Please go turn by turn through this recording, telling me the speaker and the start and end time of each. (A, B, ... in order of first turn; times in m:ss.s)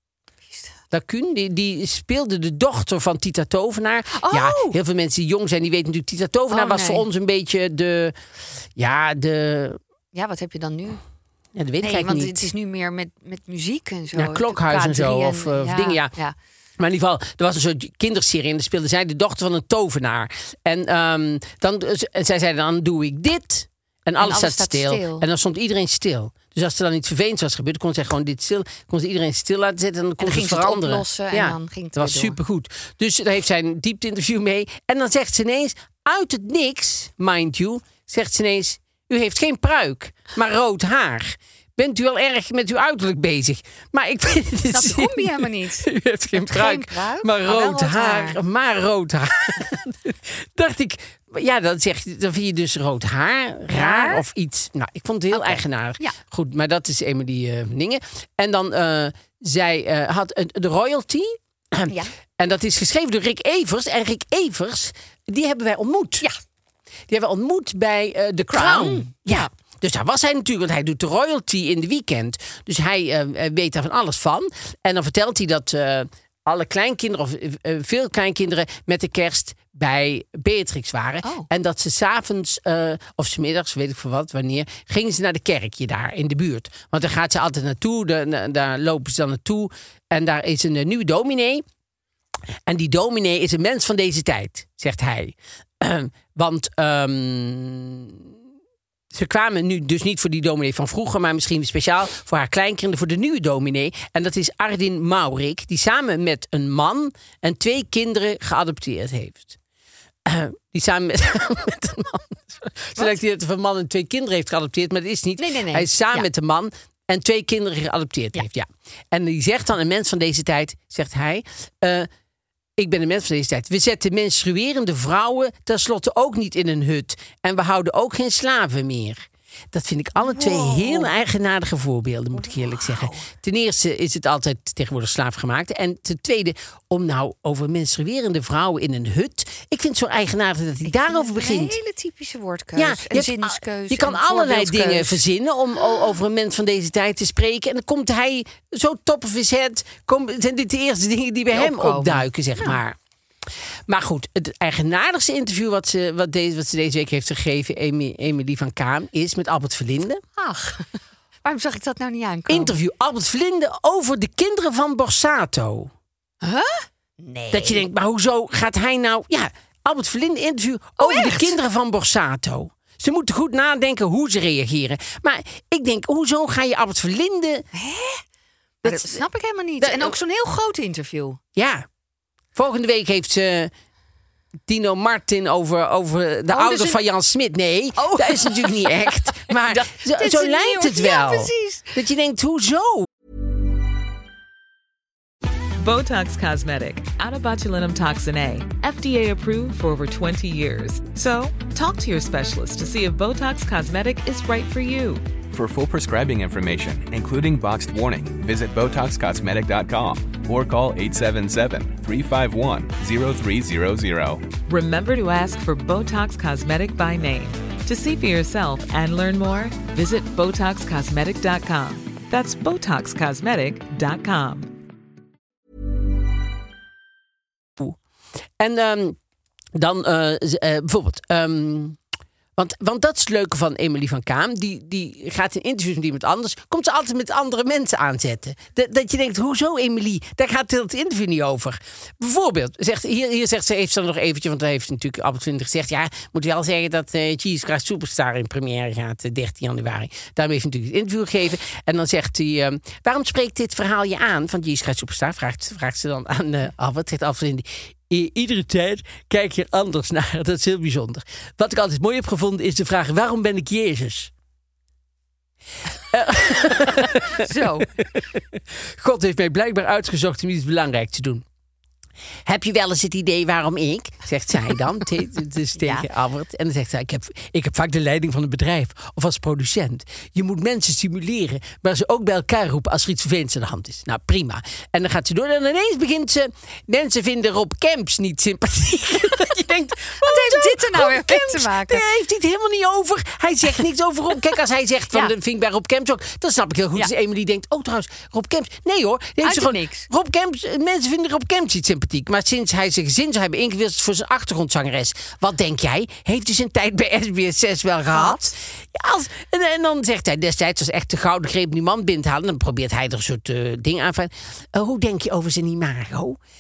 0:00.5-0:00.7 A
0:00.9-0:08.2 B
0:04.1-0:04.8 A
0:06.5-0:07.0 A
0:08.8-0:09.8 B
0:10.1-0:11.0 A
0:11.6-0:12.5 B
0:11.8-0:16.3 A
0:14.1-0:16.1 B
0:16.8-1:06.3 B
0:24.2-0:25.2 A
0:30.2-0:32.4 A
0:44.7-0:48.4 A
0:53.7-0:54.2 A
0:55.3-0:56.2 A
1:07.1-1:31.6 B
1:08.5-1:09.5 A
1:21.2-1:21.5 A
1:32.6-1:38.3 B
1:39.1-1:49.6 B
1:50.2-2:02.1 B
1:55.4-1:56.3 A
2:02.8-2:21.8 B
2:10.2-2:11.1 A
2:12.3-2:13.3 A
2:20.8-2:25.2 A
2:22.8-2:33.0 B
2:31.5-2:32.8 A
2:33.9-2:40.2 B
2:40.3-2:40.9 A
2:41.4-2:42.8 A
2:42.5-2:45.9 B
2:46.4-2:47.9 A
2:47.5-2:57.7 B
2:51.0-2:51.6 A
2:57.7-2:58.2 A
2:58.8-2:59.2 B
2:58.8-3:01.4 A
2:59.8-3:00.2 B
3:01.6-3:01.9 B
3:02.6-3:03.7 B
3:04.7-3:13.1 B
3:06.5-3:07.0 A
3:08.0-3:12.0 A
3:15.8-3:25.2 C
3:25.5-3:34.5 D
3:34.6-3:44.7 C
3:48.6-3:49.2 B
3:49.7-3:52.0 B
3:52.6-4:24.3 B
4:26.1-4:31.4 B
4:27.3-4:27.9 A
4:32.4-5:16.4 B
4:35.8-4:36.1 A
4:49.4-4:52.0 A
4:59.4-5:00.1 A
5:08.1-5:08.5 A